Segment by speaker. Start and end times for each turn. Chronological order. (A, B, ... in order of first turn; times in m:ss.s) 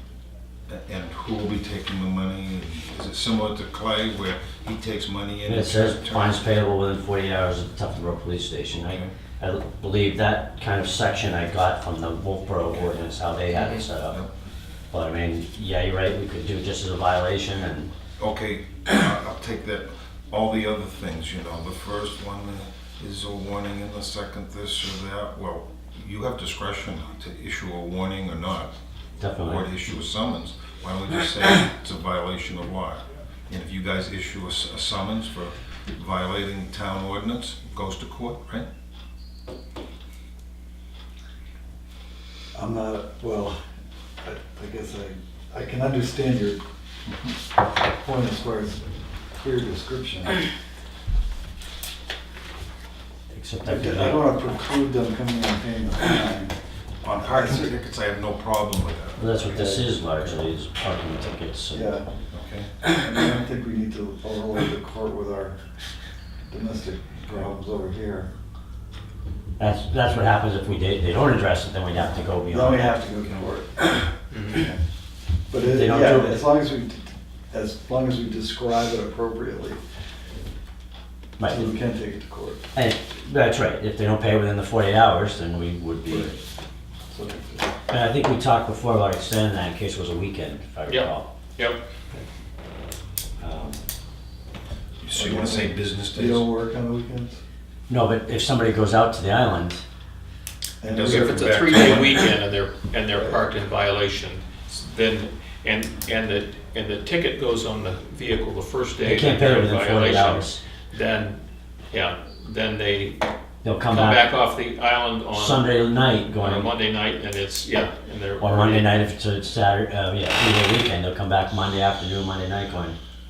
0:00.7-0:06.5 A
0:05.5-0:14.2 B
0:08.7-0:09.1 A
0:13.5-0:13.8 C
0:14.9-0:17.9 B
0:18.2-0:28.7 A
0:29.2-0:29.6 B
0:29.4-0:38.7 A
0:42.5-0:43.6 D
0:44.2-0:46.6 D
0:47.9-0:48.8 D
0:49.4-0:50.4 D
0:53.3-0:54.3 B
0:53.6-0:56.6 D
0:57.0-1:00.3 A
0:57.2-0:57.7 D
0:59.2-1:02.0 B
0:59.5-0:59.8 D
1:01.7-1:02.1 D
1:02.3-1:02.7 A
1:02.9-1:05.6 D
1:06.5-1:08.3 D
1:09.6-1:13.0 B
1:12.5-1:14.8 D
1:14.3-1:14.7 C
1:15.5-1:19.8 D
1:15.6-1:16.5 B
1:21.4-1:21.7 B
1:21.4-1:22.6 D
1:22.7-1:26.4 B
1:27.1-1:27.7 D
1:27.9-1:31.3 B
1:30.9-1:31.8 C
1:33.4-1:33.8 B
1:35.0-1:36.5 A
1:35.2-1:37.4 D
1:37.9-1:39.8 B
1:40.8-1:41.5 D
1:40.9-1:42.3 A
1:41.0-1:53.2 C
1:49.0-1:50.6 B
1:53.6-1:54.3 B
1:53.9-1:55.7 C
1:55.3-1:56.7 B
1:56.4-1:58.9 C
1:58.4-2:03.0 B